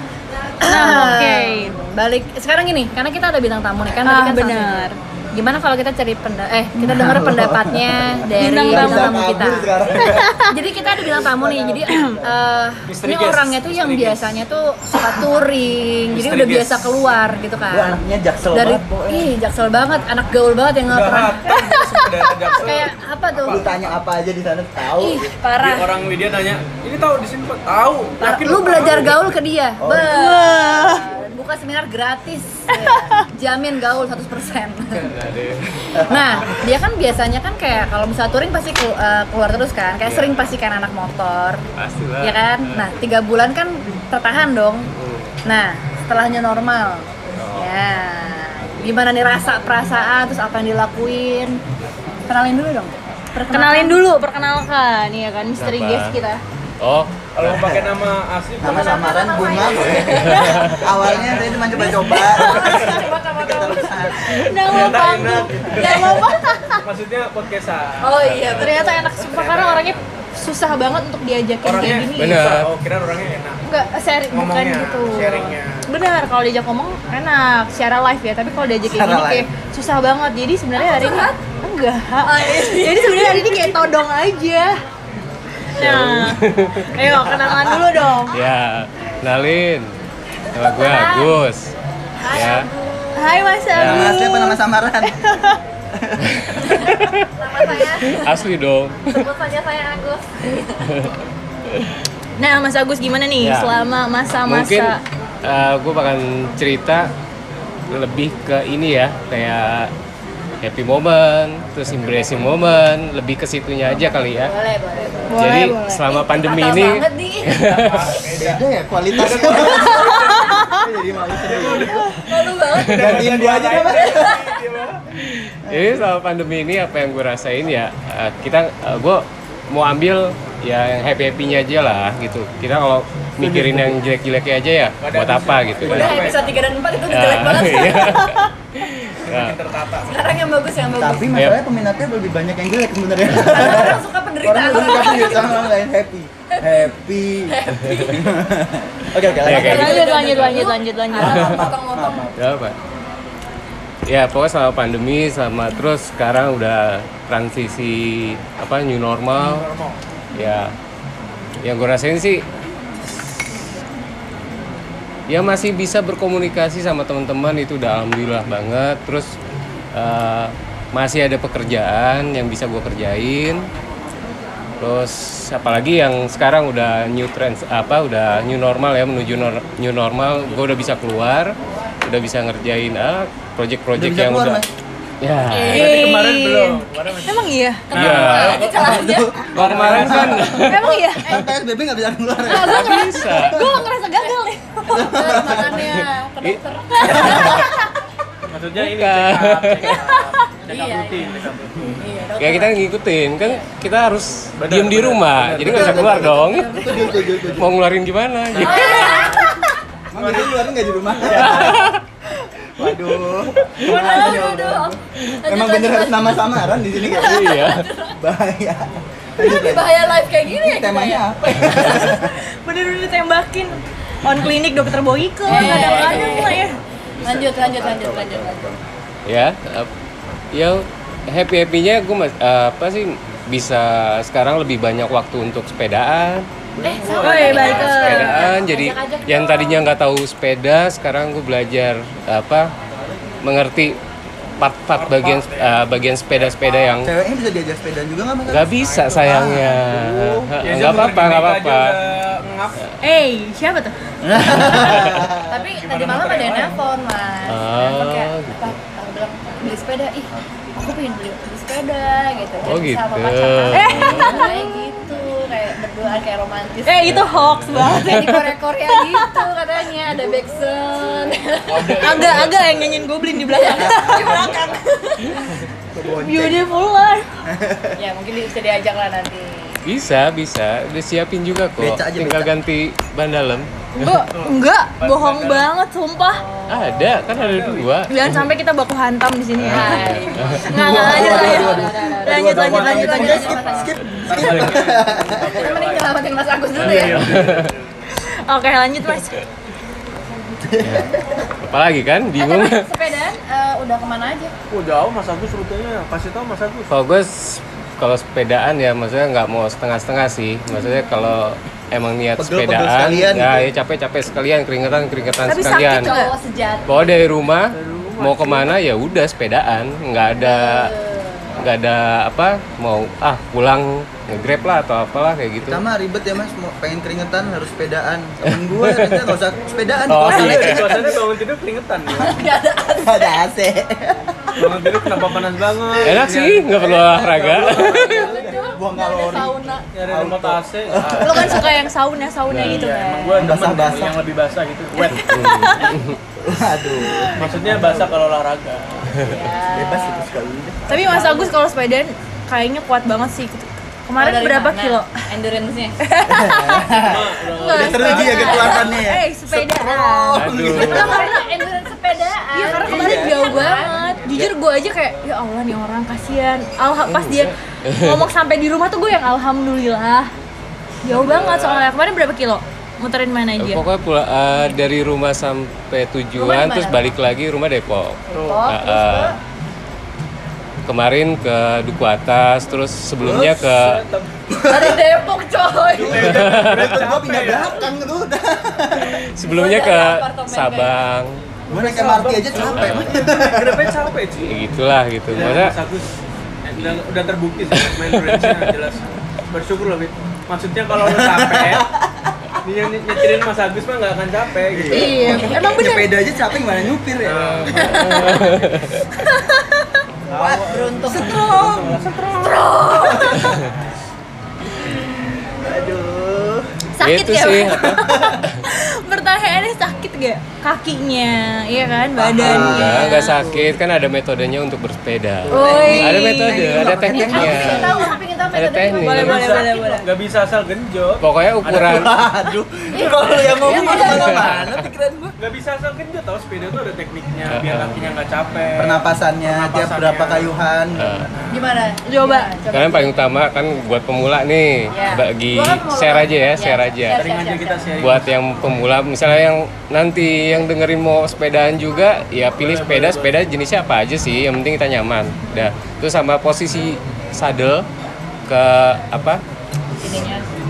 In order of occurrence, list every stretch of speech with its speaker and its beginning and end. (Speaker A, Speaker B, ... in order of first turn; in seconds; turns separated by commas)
Speaker A: 0.6-9.7, Speaker B: 0.7-1.8, Speaker B: 4.0-5.0, Speaker C: 6.8-10.3, Speaker B: 8.4-9.4, Speaker B: 10.0-10.5, Speaker A: 10.5-18.0, Speaker C: 11.4-11.8, Speaker B: 11.9-12.1, Speaker D: 12.9-14.3, Speaker D: 16.1-17.0, Speaker C: 17.7-19.3, Speaker A: 18.5-21.5, Speaker D: 20.9-23.0, Speaker B: 21.5-22.1, Speaker A: 22.5-23.6, Speaker C: 23.4-25.3, Speaker D: 23.5-23.8, Speaker A: 25.0-25.9, Speaker D: 25.6-29.2, Speaker A: 28.2-35.1, Speaker C: 29.8-30.1, Speaker B: 30.0-31.1, Speaker B: 32.7-33.2, Speaker E: 34.9-36.0, Speaker C: 36.0-36.5, Speaker A: 36.0-41.6, Speaker E: 40.0-40.4, Speaker E: 41.8-42.9, Speaker A: 42.2-44.9, Speaker E: 45.0-45.3, Speaker A: 45.5-51.6, Speaker E: 47.4-47.7, Speaker A: 52.3-54.0, Speaker B: 53.5-56.4, Speaker E: 55.6-56.2, Speaker E: 56.8-57.4, Speaker D: 57.3-59.2, Speaker C: 57.4-57.9, Speaker C: 58.6-64.4, Speaker A: 58.6-61.6, Speaker E: 60.2-60.8, Speaker B: 60.3-60.6, Speaker D: 61.2-61.5, Speaker B: 61.8-63.0, Speaker A: 62.1-63.9, Speaker D: 62.1-63.0, Speaker B: 64.2-66.8, Speaker D: 64.5-69.9, Speaker A: 65.8-66.2, Speaker A: 68.0-69.1, Speaker B: 68.6-72.4, Speaker D: 71.6-73.7, Speaker E: 72.2-72.7, Speaker B: 73.7-84.8, Speaker D: 74.3-75.8, Speaker C: 78.8-79.5, Speaker A: 80.8-81.4, Speaker A: 82.2-83.7, Speaker B: 85.8-88.4, Speaker E: 85.8-87.8, Speaker C: 87.5-87.8, Speaker E: 88.3-89.9, Speaker E: 90.5-91.8, Speaker A: 90.8-91.4, Speaker A: 92.2-93.6, Speaker E: 92.3-92.7, Speaker B: 93.2-94.6, Speaker E: 93.7-94.1, Speaker C: 93.8-95.2, Speaker B: 95.1-95.6, Speaker C: 96.0-96.3, Speaker E: 96.2-97.3, Speaker A: 96.7-98.4, Speaker E: 97.9-99.3, Speaker A: 99.1-100.9, Speaker E: 100.8-101.1, Speaker B: 102.4-105.0, Speaker E: 103.4-103.8, Speaker E: 104.4-107.1, Speaker E: 107.9-109.9, Speaker E: 110.6-114.5, Speaker A: 114.2-115.6, Speaker B: 115.3-116.2, Speaker E: 115.3-118.2, Speaker A: 116.1-117.7, Speaker D: 117.5-120.7, Speaker C: 118.4-122.1, Speaker D: 121.3-122.2, Speaker A: 122.2-124.5, Speaker E: 122.8-123.2, Speaker C: 122.9-124.5, Speaker D: 122.9-125.0, Speaker E: 125.2-136.4, Speaker C: 125.7-126.0, Speaker D: 133.4-134.0, Speaker D: 135.0-136.6, Speaker A: 135.8-138.4, Speaker E: 137.1-139.6, Speaker D: 139.2-140.2, Speaker A: 140.1-141.3, Speaker C: 141.0-150.6, Speaker E: 141.3-141.6, Speaker A: 143.4-145.7, Speaker A: 147.5-148.4, Speaker E: 147.8-148.1, Speaker E: 149.4-150.6, Speaker B: 149.4-151.8, Speaker A: 149.4-152.3, Speaker C: 151.2-152.4, Speaker E: 151.4-151.7, Speaker E: 152.4-152.8, Speaker E: 154.1-159.7, Speaker D: 159.4-160.0, Speaker E: 160.3-160.8, Speaker E: 161.6-162.5, Speaker E: 165.3-169.4, Speaker E: 169.9-173.7, Speaker E: 174.8-184.6, Speaker C: 183.9-184.7, Speaker E: 185.2-186.0, Speaker D: 185.5-188.6, Speaker B: 185.7-187.9, Speaker A: 187.9-189.5, Speaker E: 187.9-188.7, Speaker C: 188.1-190.6, Speaker D: 189.5-190.5, Speaker E: 189.5-190.9, Speaker A: 190.6-191.1, Speaker B: 190.6-191.4, Speaker C: 191.2-193.8, Speaker A: 192.5-193.1, Speaker B: 192.5-195.7, Speaker E: 192.5-193.7, Speaker A: 194.2-197.8, Speaker C: 194.9-196.0, Speaker E: 195.7-196.6, Speaker B: 197.0-197.8, Speaker C: 197.0-197.6, Speaker E: 197.2-197.7, Speaker D: 198.5-201.9, Speaker E: 198.8-200.0, Speaker B: 199.9-200.2, Speaker A: 200.7-202.8, Speaker E: 202.4-209.4, Speaker D: 204.6-206.3, Speaker C: 205.7-207.7, Speaker A: 206.1-207.3, Speaker D: 207.3-207.6, Speaker D: 208.5-209.5, Speaker A: 208.6-209.6, Speaker B: 208.8-209.4, Speaker C: 210.1-211.9, Speaker D: 210.2-211.8, Speaker E: 211.3-212.0, Speaker C: 212.8-217.6, Speaker B: 213.9-214.8, Speaker A: 213.9-216.1, Speaker B: 215.5-216.4, Speaker B: 217.1-217.7, Speaker E: 217.2-217.9, Speaker A: 217.3-218.1, Speaker C: 218.2-222.4, Speaker A: 219.4-221.9, Speaker E: 221.6-222.1, Speaker B: 222.0-226.8, Speaker A: 225.5-226.7, Speaker C: 225.5-226.4, Speaker D: 225.6-226.7, Speaker C: 227.2-228.8, Speaker A: 227.2-228.7, Speaker E: 229.3-229.9, Speaker E: 230.5-236.5, Speaker C: 236.8-237.6, Speaker A: 236.8-239.9, Speaker D: 237.0-237.9, Speaker B: 237.1-238.6, Speaker E: 237.3-242.7, Speaker E: 243.4-244.0, Speaker E: 244.6-247.1, Speaker D: 244.9-246.7, Speaker C: 247.0-250.5, Speaker E: 248.5-252.0, Speaker D: 250.6-252.8, Speaker B: 253.0-253.9, Speaker C: 254.2-255.5, Speaker E: 254.7-255.2, Speaker A: 255.5-267.2, Speaker D: 255.8-256.8, Speaker E: 257.5-258.7, Speaker E: 262.7-264.5, Speaker B: 263.7-264.9, Speaker B: 266.9-269.5, Speaker E: 267.0-268.4, Speaker A: 267.8-272.5, Speaker D: 271.7-273.1, Speaker B: 272.0-274.7, Speaker A: 273.3-275.6, Speaker C: 273.7-274.6, Speaker D: 274.1-274.7, Speaker C: 275.9-276.7, Speaker B: 276.1-277.3, Speaker C: 277.5-278.0, Speaker A: 278.0-279.8, Speaker E: 279.9-284.3, Speaker C: 281.8-282.5, Speaker B: 284.0-286.5, Speaker D: 284.3-285.7, Speaker A: 286.3-286.9, Speaker E: 286.7-288.5, Speaker D: 287.2-287.9, Speaker B: 288.1-293.7, Speaker E: 289.6-290.7, Speaker A: 289.6-293.9, Speaker C: 290.7-295.6, Speaker D: 292.5-296.2, Speaker A: 295.4-297.5, Speaker D: 296.7-297.8, Speaker E: 296.8-297.7, Speaker B: 298.5-299.4, Speaker C: 300.6-301.1, Speaker E: 300.8-301.1, Speaker E: 301.6-302.9, Speaker A: 302.4-304.5, Speaker D: 304.7-306.9, Speaker E: 306.9-316.1, Speaker C: 312.4-313.7, Speaker B: 315.5-316.3, Speaker A: 315.7-317.4, Speaker E: 316.9-320.9, Speaker D: 317.7-318.8, Speaker A: 320.4-321.6, Speaker E: 321.6-325.8, Speaker C: 325.6-331.2, Speaker E: 328.5-329.3, Speaker E: 330.1-331.0, Speaker D: 330.3-332.4, Speaker A: 332.2-333.4, Speaker C: 332.9-334.6, Speaker D: 334.6-338.5, Speaker E: 336.0-338.4, Speaker C: 337.6-341.9, Speaker A: 338.1-339.9, Speaker B: 338.1-339.4, Speaker D: 339.9-341.7, Speaker B: 341.2-343.5, Speaker E: 342.5-342.8, Speaker D: 342.5-345.7, Speaker C: 343.4-344.2, Speaker B: 345.1-345.9, Speaker E: 345.1-346.2, Speaker C: 346.4-348.2, Speaker B: 347.0-347.4, Speaker D: 347.4-349.2, Speaker E: 349.2-349.5, Speaker A: 349.2-350.3, Speaker C: 349.7-351.3, Speaker A: 350.9-351.6, Speaker B: 350.9-355.1, Speaker A: 354.2-356.0, Speaker B: 356.0-361.5, Speaker C: 356.2-361.3, Speaker D: 356.9-358.9, Speaker E: 360.3-361.2, Speaker A: 360.7-364.2, Speaker B: 362.5-370.3, Speaker C: 362.7-363.7, Speaker E: 367.0-368.3, Speaker B: 371.0-373.8, Speaker D: 371.1-371.9, Speaker E: 373.6-379.3, Speaker A: 376.4-377.1, Speaker A: 378.3-379.4, Speaker D: 378.3-378.6, Speaker E: 380.9-384.0, Speaker C: 383.2-383.6, Speaker D: 383.2-384.3, Speaker C: 384.5-385.0, Speaker A: 384.7-386.3, Speaker C: 385.9-389.2, Speaker D: 386.0-387.8, Speaker E: 386.3-386.9, Speaker E: 389.0-391.4, Speaker A: 389.4-391.0, Speaker C: 391.7-393.9, Speaker D: 391.7-394.5, Speaker E: 392.6-393.1, Speaker E: 394.4-395.8, Speaker D: 395.3-396.1, Speaker D: 396.7-399.0, Speaker E: 397.8-398.6, Speaker D: 399.5-401.9, Speaker C: 400.9-402.4, Speaker D: 402.6-405.6, Speaker C: 404.7-407.9, Speaker B: 404.9-406.1, Speaker D: 407.2-408.7, Speaker E: 407.7-409.1, Speaker B: 407.8-408.5, Speaker B: 409.1-409.9, Speaker D: 410.3-413.1, Speaker C: 410.3-412.1, Speaker A: 410.4-411.5, Speaker B: 411.1-413.6, Speaker C: 412.8-413.7, Speaker C: 415.6-416.7, Speaker B: 417.0-423.5, Speaker E: 417.0-418.6, Speaker C: 417.7-418.4, Speaker C: 422.1-423.8, Speaker E: 422.4-429.4, Speaker C: 425.4-428.1, Speaker B: 425.5-426.9, Speaker A: 425.6-426.1, Speaker A: 427.2-429.9, Speaker B: 429.0-430.1, Speaker D: 429.1-432.0, Speaker E: 431.2-432.1, Speaker C: 431.7-435.3, Speaker A: 432.9-434.4, Speaker E: 433.6-434.7, Speaker D: 433.7-434.7, Speaker D: 435.4-440.6, Speaker E: 437.5-438.0, Speaker C: 438.8-441.3, Speaker E: 441.0-441.3, Speaker D: 441.3-441.6, Speaker A: 441.5-443.2, Speaker B: 442.1-442.6, Speaker E: 442.7-447.3, Speaker A: 444.9-447.9, Speaker D: 447.1-448.3, Speaker E: 448.0-457.9, Speaker D: 452.6-453.3, Speaker E: 458.5-459.4, Speaker A: 460.0-460.4